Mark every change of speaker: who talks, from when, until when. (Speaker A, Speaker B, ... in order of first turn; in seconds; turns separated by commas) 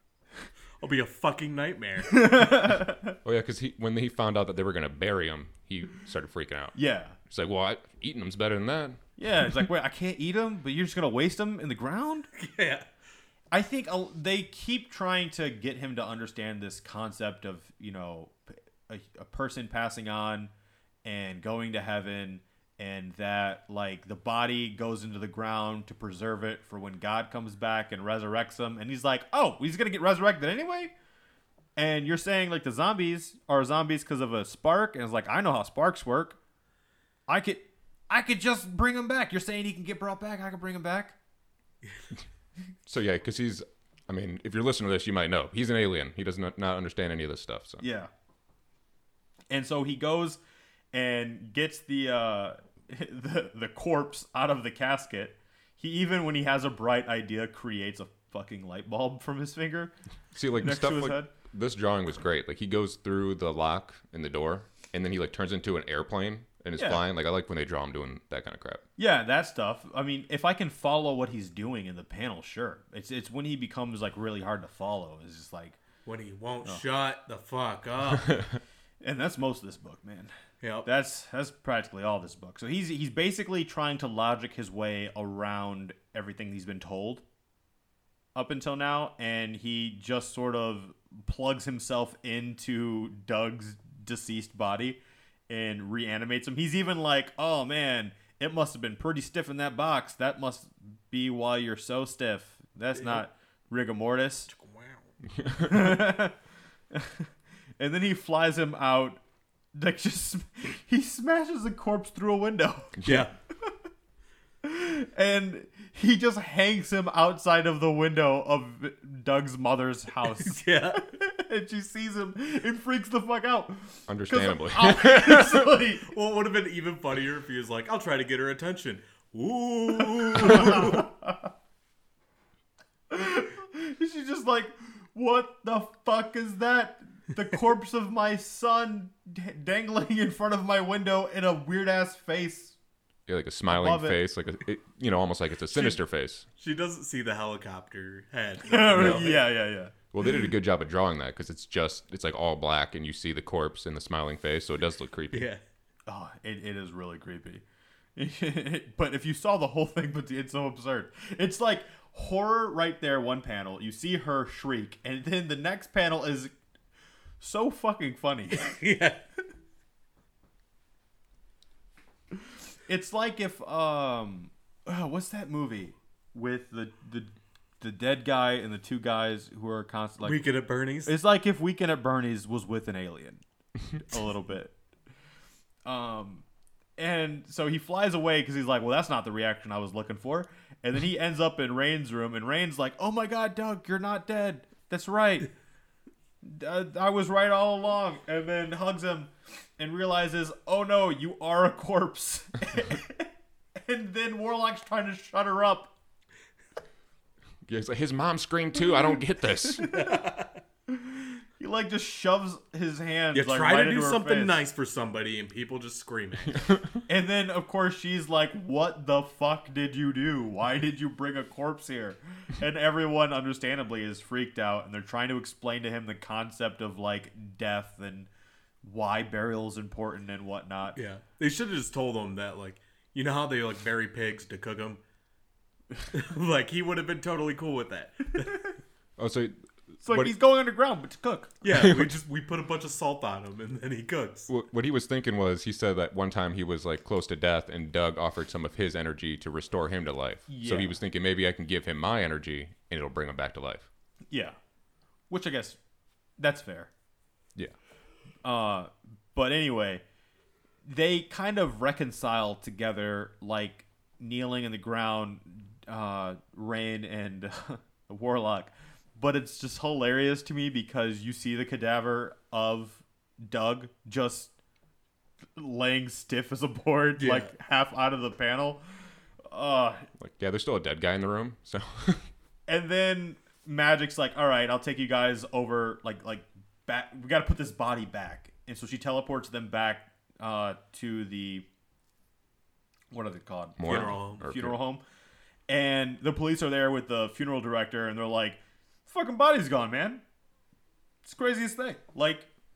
Speaker A: 0.8-2.4, Speaker B: 2.1-3.1, Speaker C: 3.2-6.8, Speaker B: 6.7-7.2, Speaker C: 7.3-9.0, Speaker B: 9.2-12.3, Speaker A: 12.3-12.8, Speaker B: 13.5-20.5, Speaker B: 21.0-30.9, Speaker B: 31.8-36.4, Speaker B: 37.3-41.1, Speaker C: 42.9-47.8, Speaker B: 47.8-48.1, Speaker B: 49.5-50.4, Speaker B: 50.9-59.9, Speaker C: 60.3-68.8, Speaker B: 60.6-61.3, Speaker B: 66.8-67.0, Speaker B: 69.0-75.8, Speaker A: 76.0-78.3, Speaker B: 79.0-80.3, Speaker A: 80.6-80.9, Speaker B: 80.8-87.2, Speaker B: 88.3-104.5, Speaker A: 102.9-103.2, Speaker A: 104.5-105.1, Speaker C: 105.4-105.7, Speaker B: 105.6-106.3, Speaker B: 106.9-109.2, Speaker B: 109.7-113.0, Speaker C: 113.0-113.2, Speaker A: 113.0-113.3, Speaker B: 114.6-126.1, Speaker A: 120.4-121.0, Speaker C: 124.1-125.7, Speaker A: 126.1-131.1, Speaker B: 130.0-131.5, Speaker B: 133.1-142.8, Speaker C: 143.3-146.4, Speaker B: 143.7-144.2, Speaker A: 146.6-149.4, Speaker B: 148.6-150.5, Speaker C: 148.9-149.4, Speaker C: 150.1-155.5, Speaker A: 155.3-155.6, Speaker B: 156.1-157.6, Speaker B: 158.2-166.5, Speaker B: 167.4-168.6, Speaker A: 168.5-169.2, Speaker B: 172.3-180.4, Speaker A: 180.2-181.2, Speaker B: 181.1-183.4, Speaker B: 183.9-184.7, Speaker B: 185.8-186.4, Speaker B: 187.0-195.5, Speaker B: 196.4-205.9, Speaker C: 207.7-209.9, Speaker B: 209.8-210.1, Speaker A: 209.9-210.6, Speaker B: 210.9-214.6, Speaker A: 213.3-216.6, Speaker C: 216.5-217.0, Speaker B: 217.1-228.3, Speaker B: 228.8-230.9, Speaker A: 230.9-235.0, Speaker A: 236.1-238.6, Speaker C: 239.2-240.3, Speaker B: 240.0-241.5, Speaker A: 241.6-244.5, Speaker C: 241.7-242.1, Speaker C: 244.5-253.9, Speaker B: 250.5-251.0, Speaker B: 254.3-254.6, Speaker B: 255.3-255.8, Speaker B: 256.4-256.9, Speaker B: 258.4-260.0, Speaker B: 260.8-274.5, Speaker B: 275.6-278.8, Speaker A: 277.2-277.5, Speaker B: 279.4-280.1, Speaker C: 280.2-282.2, Speaker B: 282.7-291.6, Speaker B: 293.1-295.0, Speaker C: 293.8-294.8, Speaker A: 293.9-294.4, Speaker B: 295.7-300.2, Speaker B: 301.2-302.5